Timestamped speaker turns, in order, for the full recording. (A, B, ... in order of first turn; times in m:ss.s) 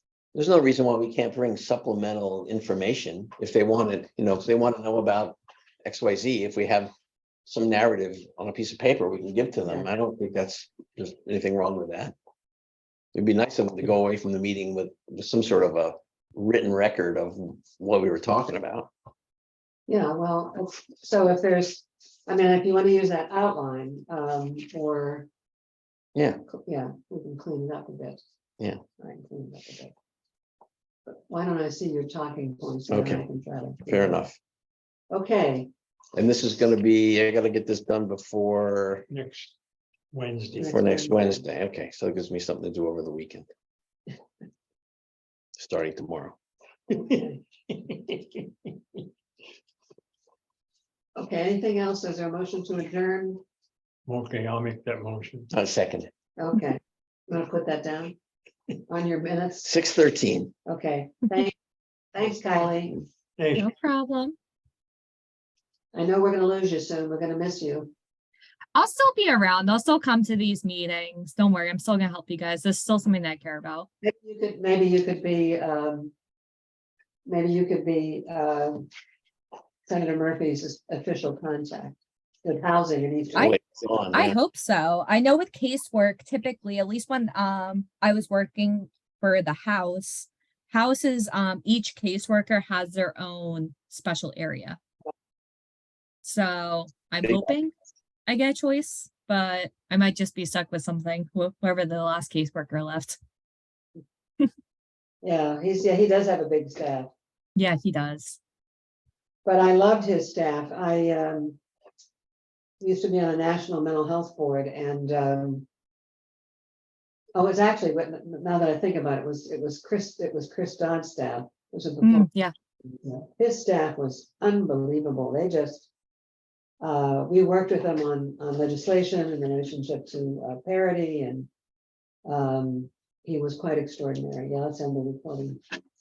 0:00.3-0:06.9 A
0:07.4-0:12.1 A
0:13.1-0:18.9 A
0:19.9-0:25.3 B
0:26.1-0:26.4 A
0:26.6-0:28.2 B
0:29.0-0:29.9 B
0:31.1-0:34.2 B
0:32.9-0:33.2 A
0:33.9-0:34.4 A
0:35.1-0:35.7 B
0:36.1-0:39.1 A
0:39.1-0:39.5 C
0:40.1-0:40.8 C
0:40.5-0:41.4 B
0:40.7-0:43.5 A
0:45.6-0:46.4 A
0:46.9-0:47.4 B
0:51.2-0:53.4 B
0:54.0-0:55.5 C
0:55.5-0:56.1 A
0:56.4-0:58.1 B
0:58.9-0:59.7 B
0:59.6-1:00.5 A
1:00.6-1:01.5 B
1:02.1-1:03.0 B
1:03.4-1:03.7 C
1:03.5-1:04.4 D
1:05.9-1:07.9 B
1:08.7-1:13.9 D
1:14.0-1:16.1 B
1:17.2-1:18.8 B
1:19.9-1:23.5 B
1:23.3-1:24.4 A
1:24.1-1:34.8 D
1:36.2-1:37.7 D
1:38.2-1:43.2 D
1:45.2-1:47.1 B
1:47.6-1:48.4 D
1:49.4-1:51.6 B
1:52.8-1:55.6 B
1:57.3-2:02.3 B
2:02.0-2:02.5 D
2:02.9-2:05.9 B
2:06.8-2:11.5 B
2:12.2-2:15.6 B